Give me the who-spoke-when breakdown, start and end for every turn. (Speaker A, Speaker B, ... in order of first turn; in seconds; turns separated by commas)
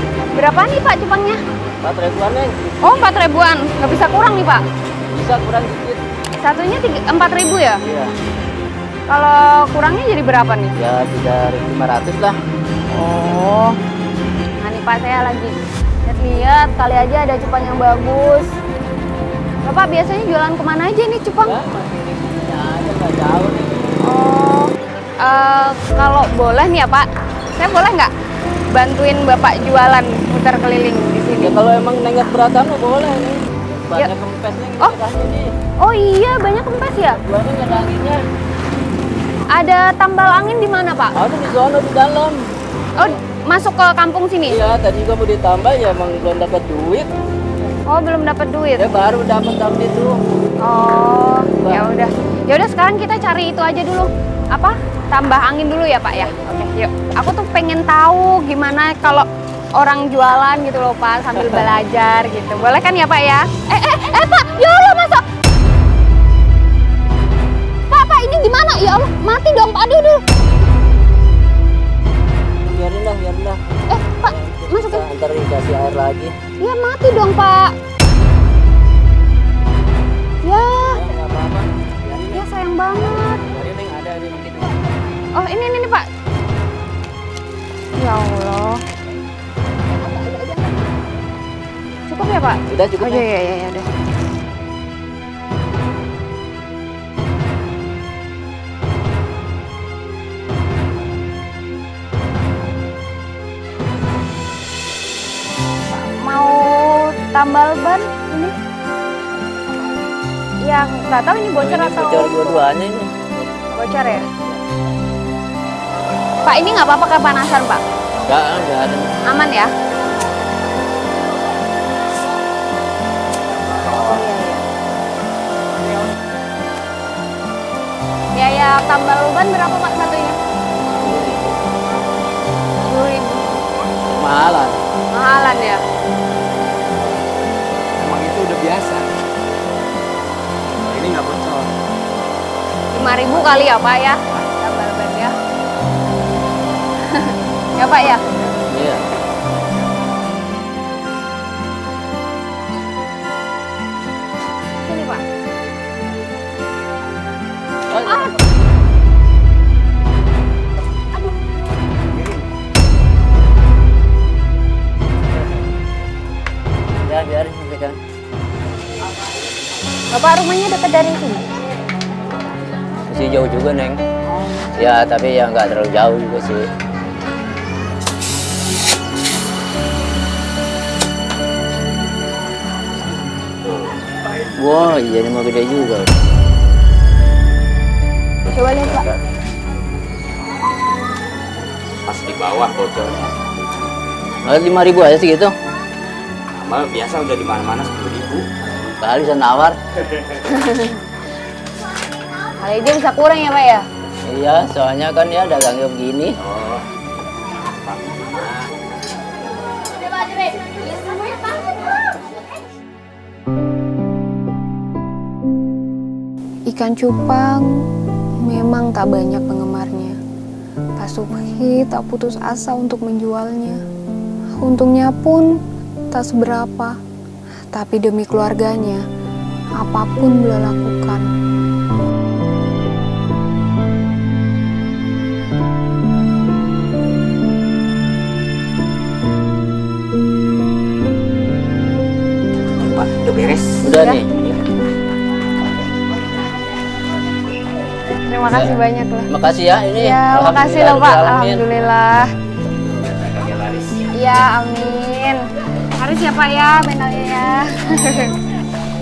Speaker A: 0.3-1.4, Speaker B: 1.8-3.1, Speaker A: 2.8-4.6, Speaker B: 5.1-6.0, Speaker A: 6.4-7.8, Speaker B: 7.9-8.1, Speaker A: 9.1-10.7, Speaker B: 10.8-12.4, Speaker A: 12.9-13.7, Speaker A: 14.6-15.5, Speaker A: 16.1-18.5, Speaker A: 19.6-21.6, Speaker B: 21.4-23.9, Speaker A: 24.0-28.1, Speaker A: 28.7-31.6, Speaker B: 31.4-35.5, Speaker A: 35.8-37.2, Speaker B: 37.1-38.2, Speaker A: 39.5-41.1, Speaker B: 41.1-42.4, Speaker A: 43.0-44.6, Speaker B: 44.5-47.1, Speaker A: 47.9-48.9, Speaker B: 48.8-50.1, Speaker A: 50.6-59.3, Speaker B: 51.6-51.9, Speaker A: 59.8-65.2, Speaker A: 67.9-70.2, Speaker B: 72.6-73.6, Speaker A: 73.9-75.1, Speaker B: 74.2-76.3, Speaker A: 76.6-77.7, Speaker A: 80.4-81.0, Speaker B: 80.9-82.4, Speaker A: 82.3-83.4, Speaker B: 83.5-84.8, Speaker A: 85.4-86.1, Speaker A: 88.0-88.8, Speaker A: 92.1-93.9, Speaker B: 92.7-93.2, Speaker A: 105.9-108.5, Speaker A: 110.6-112.7, Speaker B: 111.6-113.1, Speaker A: 113.8-114.3, Speaker A: 116.4-117.8, Speaker B: 118.3-119.1, Speaker A: 119.3-119.7, Speaker A: 123.9-124.7, Speaker A: 128.3-130.4, Speaker B: 131.0-131.6, Speaker A: 132.9-133.5, Speaker B: 134.2-134.8, Speaker A: 135.1-135.8, Speaker C: 138.0-139.1, Speaker C: 140.9-141.8, Speaker A: 142.9-145.3, Speaker A: 147.2-148.2, Speaker B: 148.7-149.0, Speaker A: 154.8-155.2, Speaker B: 157.9-158.3, Speaker A: 158.0-158.3, Speaker C: 162.1-162.4, Speaker B: 167.0-168.0, Speaker A: 170.1-171.5, Speaker B: 173.1-174.0, Speaker B: 174.8-176.7, Speaker B: 184.6-186.1, Speaker A: 188.5-189.1, Speaker C: 192.1-193.3, Speaker B: 194.5-195.5, Speaker C: 196.6-198.5, Speaker B: 199.0-199.8, Speaker A: 200.5-201.0, Speaker A: 202.6-203.9, Speaker B: 204.3-206.3, Speaker C: 206.5-206.8, Speaker C: 207.9-208.7, Speaker A: 216.7-217.7, Speaker A: 218.4-220.2, Speaker A: 221.0-223.8, Speaker A: 224.6-225.5, Speaker A: 226.1-226.9, Speaker A: 227.7-229.0, Speaker A: 229.8-231.3, Speaker C: 242.8-243.8, Speaker B: 243.8-244.5, Speaker A: 243.9-244.2, Speaker A: 248.3-249.3, Speaker B: 248.5-248.8, Speaker B: 249.3-251.7, Speaker A: 249.9-252.3, Speaker C: 253.4-253.9, Speaker A: 254.2-255.4, Speaker A: 256.0-258.4